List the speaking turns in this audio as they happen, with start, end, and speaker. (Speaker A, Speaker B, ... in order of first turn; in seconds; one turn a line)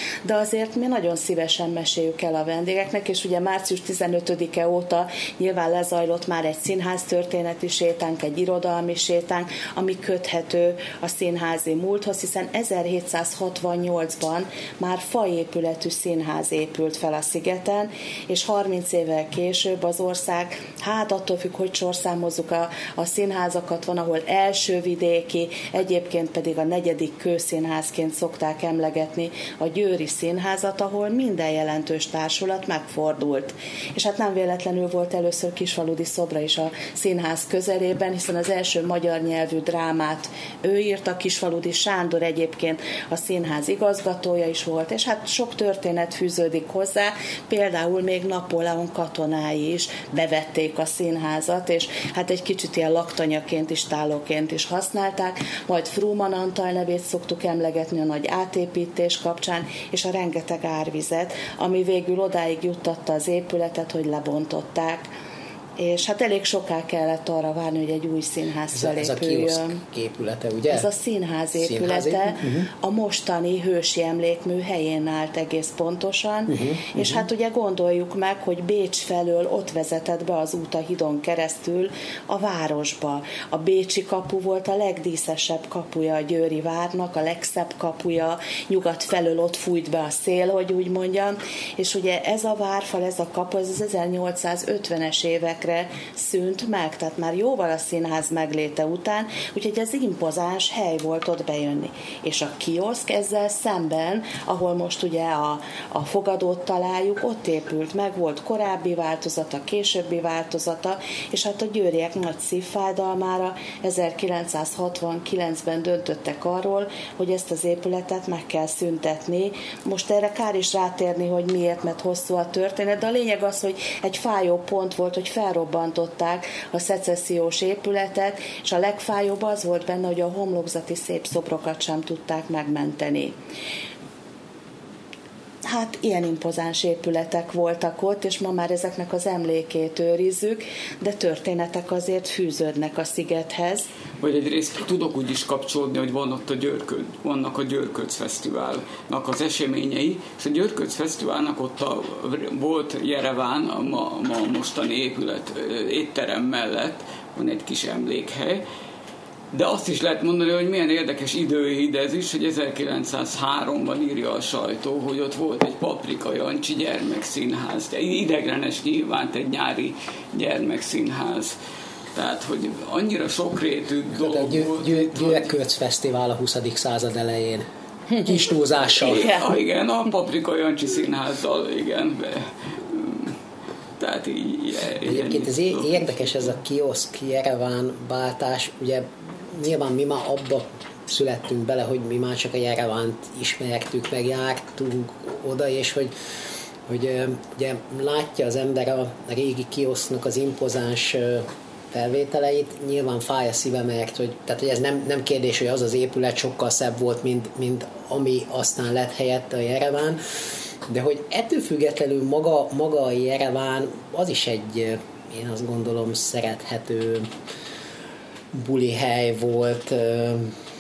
Speaker A: 0.2-65.1
Speaker A: 65.8-69.8
Speaker B: 68.7-70.9
Speaker A: 70.7-133.3
Speaker B: 71.6-72.7
Speaker B: 76.5-77.3
Speaker A: 135.7-143.9
Speaker C: 144.2-158.6
Speaker C: 159.5-171.6
Speaker C: 172.1-175.5
Speaker B: 174.2-177.7
Speaker B: 178.2-179.3
Speaker C: 179.0-183.3
Speaker A: 179.0-179.5
Speaker C: 184.0-186.3
Speaker B: 185.0-196.1
Speaker B: 196.9-210.2
Speaker B: 210.9-217.3
Speaker B: 218.5-220.5